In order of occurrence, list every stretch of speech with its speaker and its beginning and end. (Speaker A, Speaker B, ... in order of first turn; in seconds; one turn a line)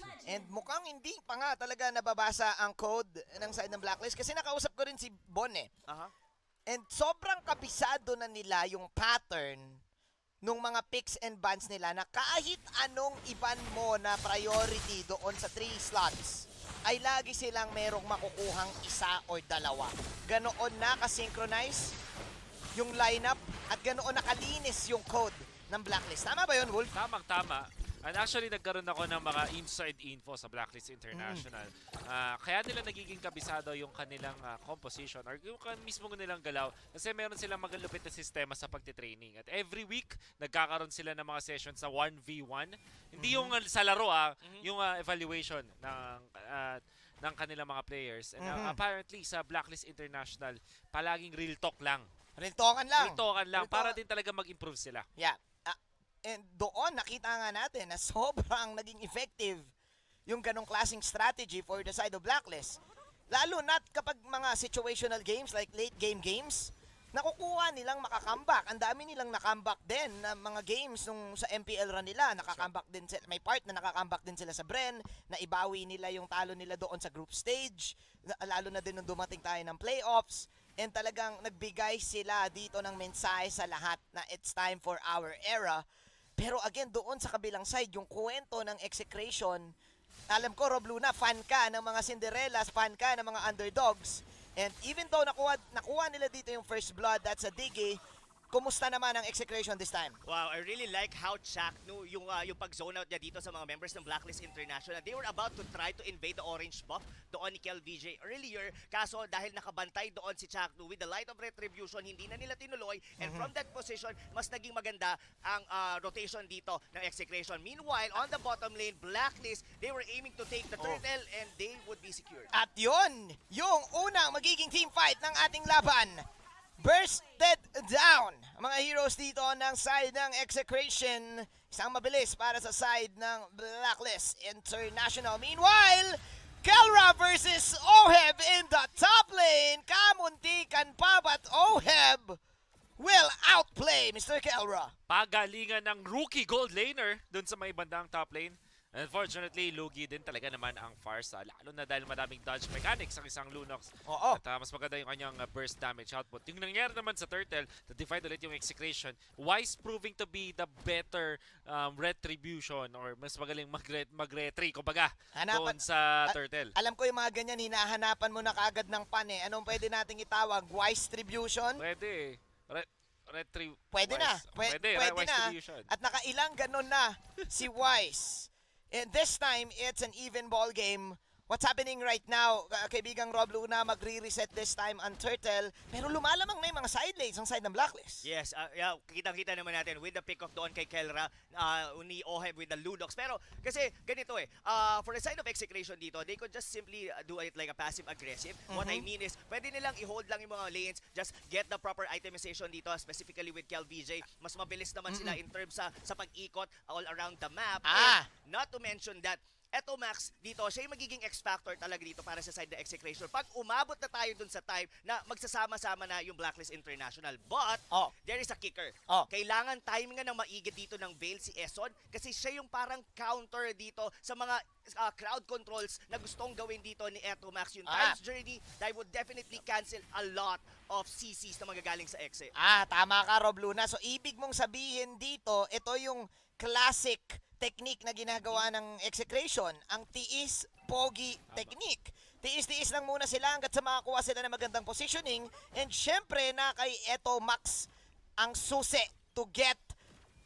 Speaker A: 0.2-5.7
Speaker A: 6.7-9.8
Speaker A: 10.4-21.9
Speaker A: 22.8-26.9
Speaker B: 26.9-52.1
Speaker A: 31.1-31.4
Speaker A: 43.2-43.5
Speaker C: 44.4-44.7
Speaker A: 48.4-48.8
Speaker A: 52.4-54.0
Speaker B: 53.0-55.0
Speaker A: 55.2-59.7
Speaker A: 60.3-62.8
Speaker A: 63.3-85.8
Speaker A: 86.4-89.6
Speaker A: 90.3-98.0
Speaker A: 98.5-100.2
Speaker C: 100.2-122.5
Speaker A: 113.2-113.5
Speaker A: 122.5-126.2
Speaker A: 126.8-142.4
Speaker A: 143.0-144.9
Speaker B: 145.1-166.7
Speaker A: 154.1-154.4
Speaker A: 165.3-171.8
Speaker B: 171.8-175.9
Speaker A: 173.9-188.2
Speaker C: 188.2-232.5
Speaker A: 198.7-199.0
Speaker A: 205.1-205.4
Speaker A: 207.8-208.3
Speaker A: 227.9-228.2
Speaker A: 232.6-249.9